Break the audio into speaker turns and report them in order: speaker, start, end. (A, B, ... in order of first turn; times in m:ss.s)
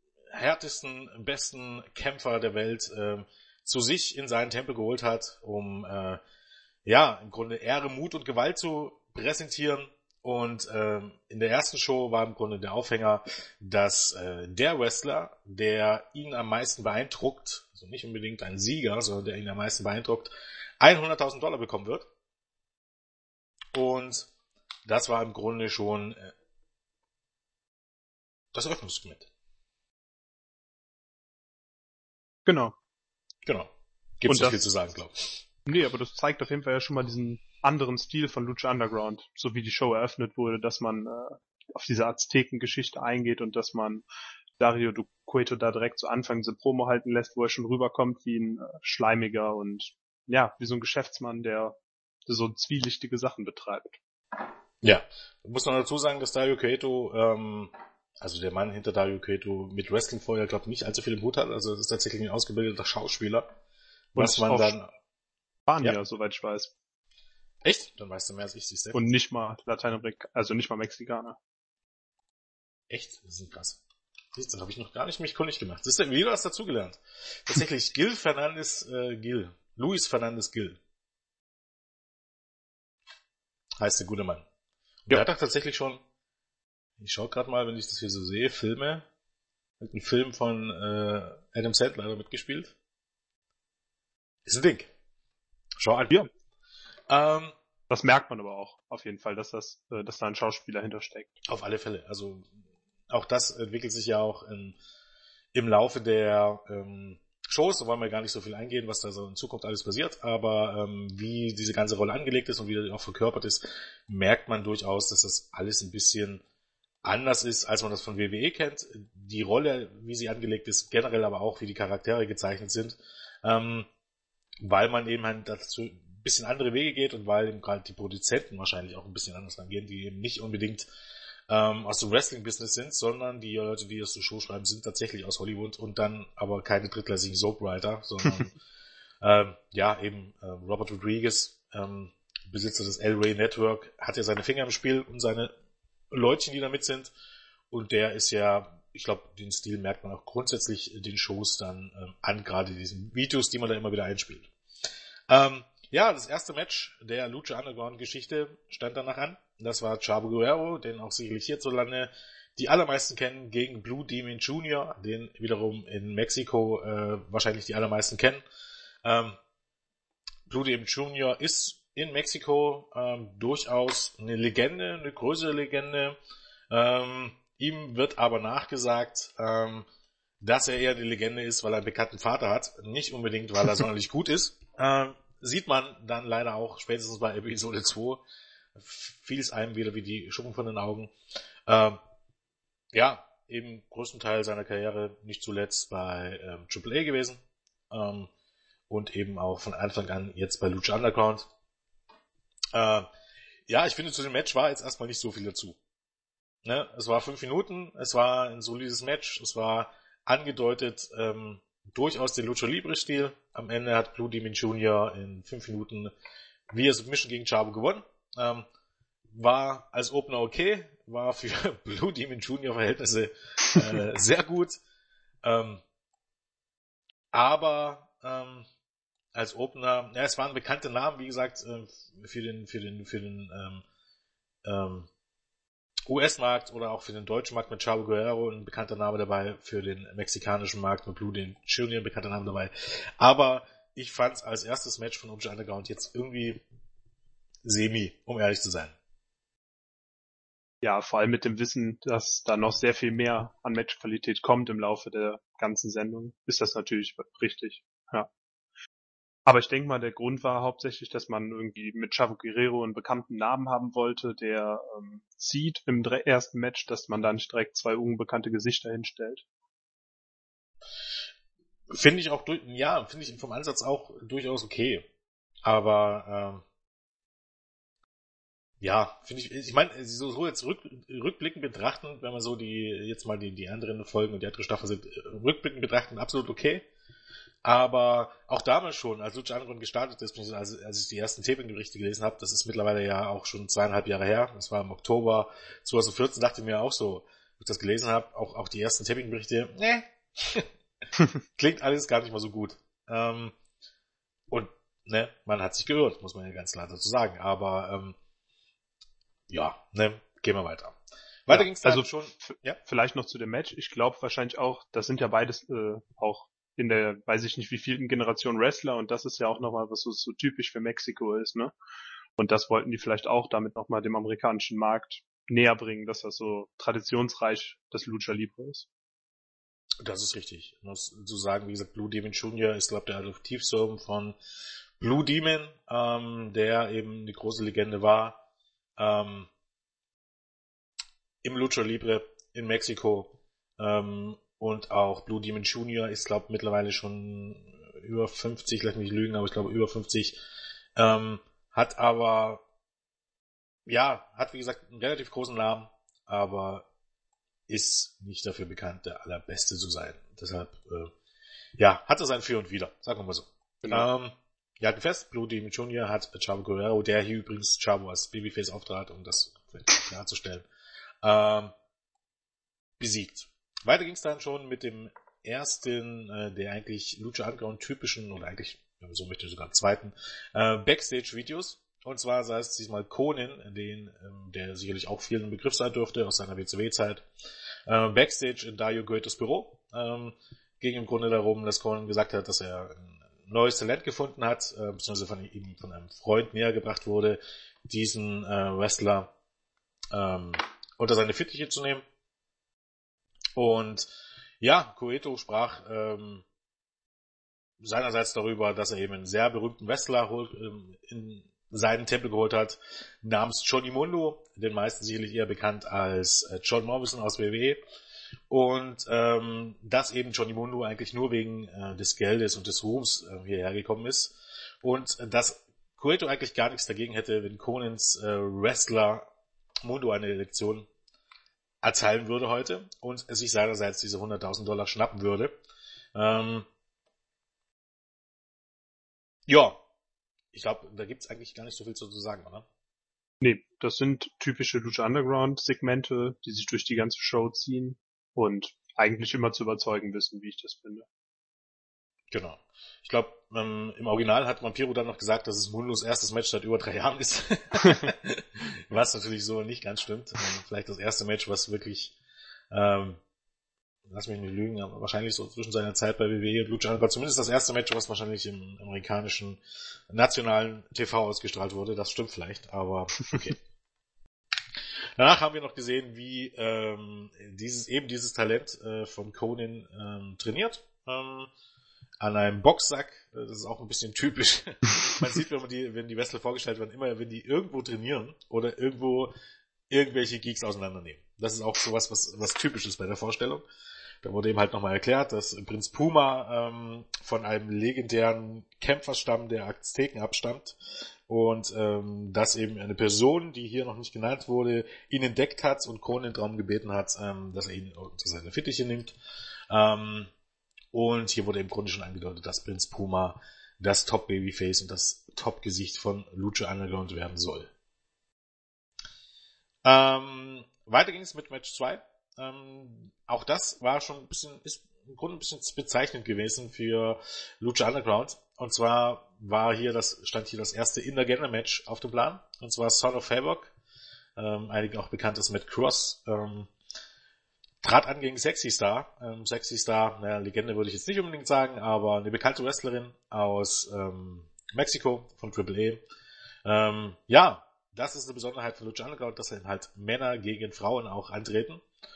0:00.3-0:06.2 A
0:06.8-0:22.1 A
0:23.7-0:24.3 A
0:24.8-0:26.3 A
0:28.5-0:29.3 A
0:32.4-0:32.7 B
0:33.4-0:35.4 A
0:34.3-0:34.6 B
0:35.6-0:44.0 B
0:44.6-0:51.8 B
0:52.3-0:54.0 B
0:54.8-1:03.5 A
1:04.1-1:04.8 B
1:04.1-1:04.9 A
1:05.6-1:06.7 B
1:07.6-1:09.0 A
1:08.9-1:11.4 B
1:12.9-1:13.8 A
1:14.3-1:20.8 A
1:23.8-1:24.4 A
1:25.1-1:26.0 A
1:27.0-1:29.0 A
1:29.8-1:32.7 A
1:34.4-1:34.9 A
1:35.8-1:36.2 A
1:37.1-1:37.5 A
1:37.9-1:41.3 B
1:41.4-1:42.5 A
1:43.1-1:44.8 A
1:45.5-1:56.4 A
1:57.0-2:03.9 A
2:04.6-2:10.9 A
2:11.5-2:18.6 A
2:19.2-2:25.5 A
2:26.1-2:27.1 A
2:27.7-2:34.5 A
2:35.3-2:48.4 A
2:49.0-2:49.4 A
2:50.5-2:56.2 A
2:56.7-2:59.8 A
3:00.4-3:08.2 A
3:08.8-3:11.1 A
3:11.7-3:12.0 A
3:12.9-3:17.4 A
3:17.9-3:18.3 A
3:18.9-3:21.5 A
3:22.7-3:23.1 A
3:23.7-3:25.8 A
3:26.6-3:36.1 A
3:36.7-3:38.6 A
3:39.3-3:44.8 A
3:45.4-3:45.8 A
3:47.3-3:48.7 A
3:49.3-3:53.8 A
3:54.6-3:55.1 A
3:56.1-4:06.6 A
4:07.6-4:09.0 A
4:10.8-4:18.3 B
4:19.4-4:29.4 B
4:31.9-4:35.1 A
4:35.6-4:36.6 A
4:38.8-4:46.9 A
4:47.6-5:00.7 A
5:01.6-5:03.6 A
5:04.5-5:08.2 A
5:09.5-5:12.8 A
5:11.5-5:21.7 B
5:22.4-5:28.9 B
5:30.0-5:34.4 A
5:35.0-5:38.4 A
5:39.0-5:39.5 A
5:41.4-5:50.4 A
5:51.0-5:52.6 A
5:53.8-5:56.9 A
5:57.7-6:01.1 A
6:01.8-6:10.6 A
6:03.8-6:04.1 B
6:11.2-6:11.7 A
6:13.0-6:27.2 A
6:27.9-6:39.3 A
6:40.1-6:42.0 A
6:43.6-6:46.4 A
6:47.8-6:57.8 A
6:58.5-7:09.3 A
7:09.8-7:10.9 A
7:11.8-7:15.5 A
7:16.1-7:16.7 A
7:19.5-7:19.8 A
7:20.5-7:22.7 A
7:23.4-7:31.0 B
7:32.3-7:42.1 A
7:42.7-7:43.2 A
7:44.1-7:53.6 A
7:55.2-8:01.5 A
8:02.2-8:09.3 A
8:09.9-8:13.6 A
8:14.2-8:20.8 A
8:21.3-8:29.2 A
8:29.7-8:30.3 A
8:30.9-8:37.7 A
8:39.8-8:53.7 A
8:54.4-8:56.7 A
8:57.8-9:06.0 A
9:06.6-9:11.8 A